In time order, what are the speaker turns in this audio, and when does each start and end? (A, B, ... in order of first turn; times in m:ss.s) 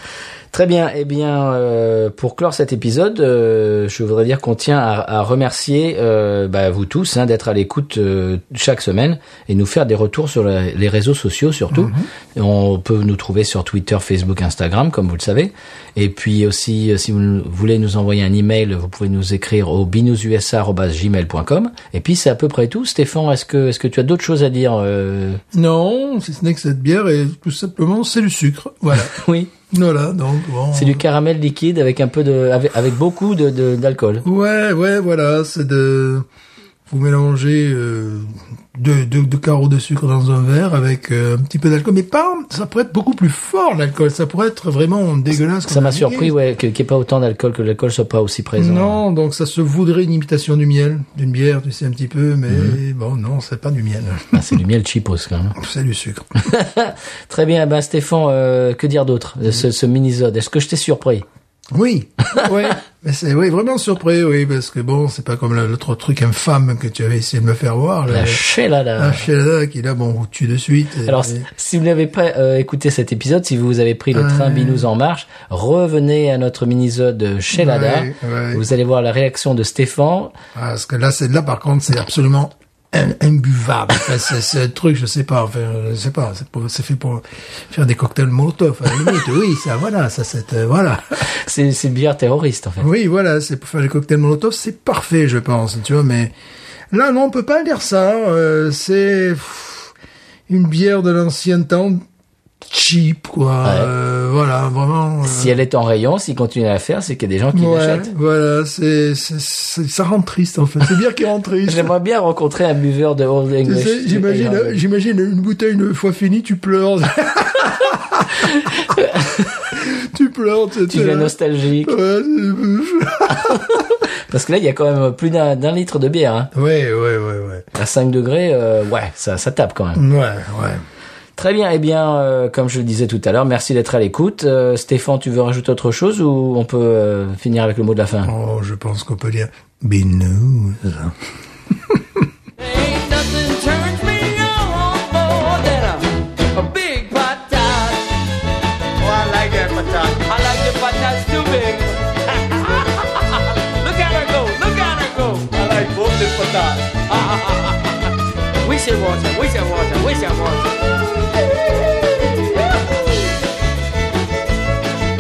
0:00.5-0:25.4 A
0:11.7-0:12.1 B
0:25.5-0:31.0 B
0:28.9-0:29.5 A
0:30.7-0:34.2 A
0:34.2-0:36.2 B
0:36.9-0:46.3 B
0:45.7-0:49.0 A
0:48.6-0:54.6 B
0:52.5-0:52.8 A
0:54.3-0:55.6 A
0:55.6-0:56.3 B
0:56.4-1:01.2 A
1:01.7-1:08.4 B
1:08.1-1:09.2 A
1:09.0-1:11.5 B
1:11.0-1:20.3 A
1:14.1-1:14.9 B
1:17.5-1:18.6 B
1:20.5-1:31.2 B
1:31.2-1:32.8 A
1:32.8-1:36.3 B
1:36.9-1:39.9 B
1:40.5-1:42.0 B
1:42.6-1:45.6 B
1:43.6-1:43.9 A
1:45.2-1:48.1 A
1:47.5-1:51.9 B
1:51.6-1:54.8 A
1:53.6-1:59.0 B
1:58.6-1:59.4 A
1:59.7-2:03.8 B
2:00.9-2:02.0 A
2:03.3-2:06.5 A
2:06.5-2:07.7 B
2:07.7-2:10.0 A
2:10.0-2:10.8 B
2:11.4-2:18.3 A
2:18.2-2:21.2 B
2:21.7-2:22.2 B
2:22.6-2:28.2 C
2:29.0-2:43.3 C